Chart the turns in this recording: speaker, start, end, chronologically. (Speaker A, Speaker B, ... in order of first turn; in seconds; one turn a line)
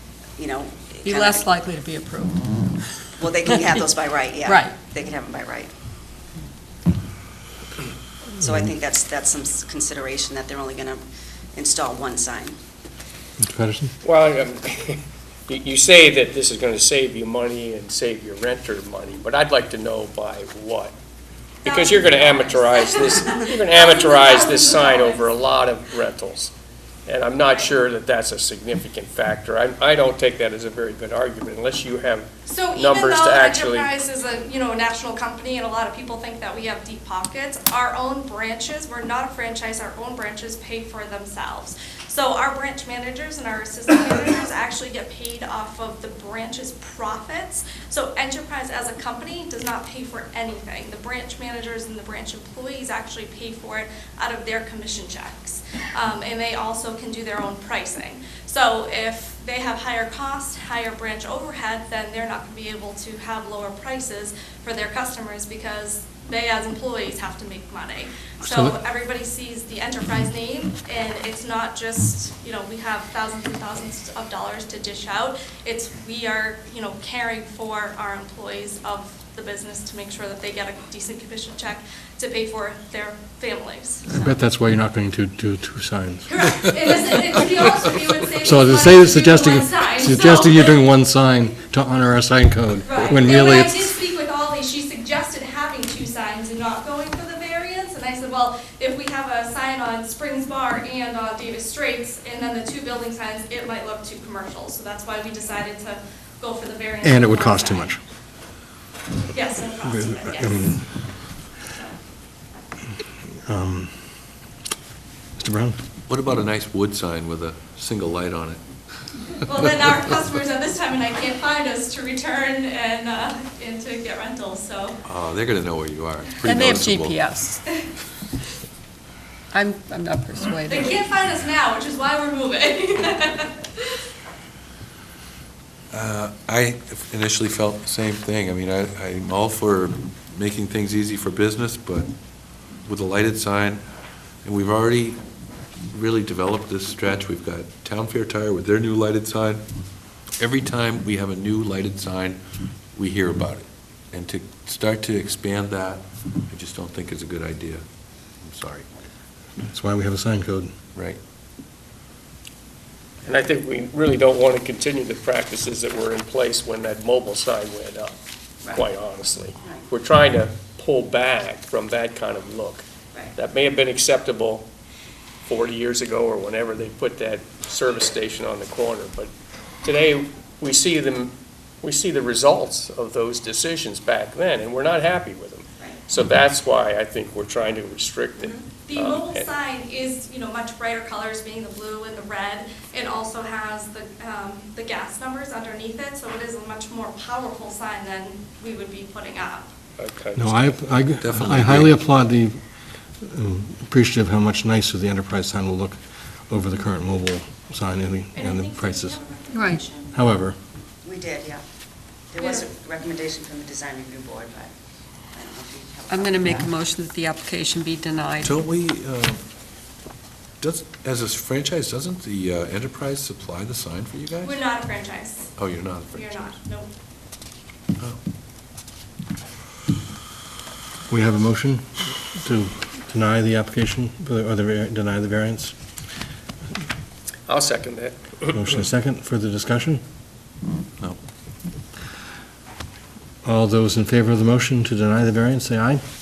Speaker A: 0.4-1.5
Speaker B: 1.0-3.1
Speaker A: 3.2-5.7
Speaker B: 4.5-4.8
Speaker A: 8.4-11.0
Speaker A: 11.6-12.6
Speaker C: 13.4-13.9
Speaker D: 14.0-20.9
Speaker D: 21.6-26.5
Speaker E: 21.7-25.4
Speaker D: 27.1-33.9
Speaker E: 27.4-27.8
Speaker E: 32.5-84.2
Speaker C: 68.4-68.8
Speaker C: 84.2-86.3
Speaker E: 86.3-90.9
Speaker C: 88.4-93.9
Speaker E: 92.8-108.0
Speaker C: 107.0-108.0
Speaker E: 109.3-111.0
Speaker C: 109.8-110.8
Speaker E: 111.6-111.9
Speaker C: 113.5-114.1
Speaker C: 115.4-115.8
Speaker F: 116.1-118.6
Speaker E: 119.3-125.0
Speaker F: 125.1-127.2
Speaker B: 126.4-127.6
Speaker B: 129.5-131.0
Speaker E: 130.7-133.9
Speaker F: 135.9-142.1
Speaker F: 142.8-143.8
Speaker F: 144.4-145.2
Speaker F: 145.9-149.7
Speaker F: 150.4-152.4
Speaker F: 152.9-157.8
Speaker F: 158.4-158.9
Speaker C: 159.6-160.7
Speaker D: 163.2-168.2
Speaker D: 168.7-172.8
Speaker D: 173.4-174.7
Speaker D: 175.5-179.3
Speaker D: 179.8-189.5
Speaker E: 188.9-199.7
Speaker D: 200.0-200.8
Speaker C: 200.4-202.6
Speaker F: 201.2-202.0
Speaker C: 203.2-209.2
Speaker E: 208.3-210.2
Speaker B: 209.5-209.8
Speaker C: 210.1-210.6
Speaker A: 211.0-211.7
Speaker A: 212.3-214.7
Speaker A: 215.3-216.7
Speaker B: 216.1-218.7
Speaker F: 218.4-219.4
Speaker F: 220.6-224.6
Speaker E: 224.4-226.9
Speaker F: 225.6-226.2
Speaker C: 231.1-235.7
Speaker D: 237.5-238.5
Speaker C: 238.5-240.0
Speaker C: 243.4-246.0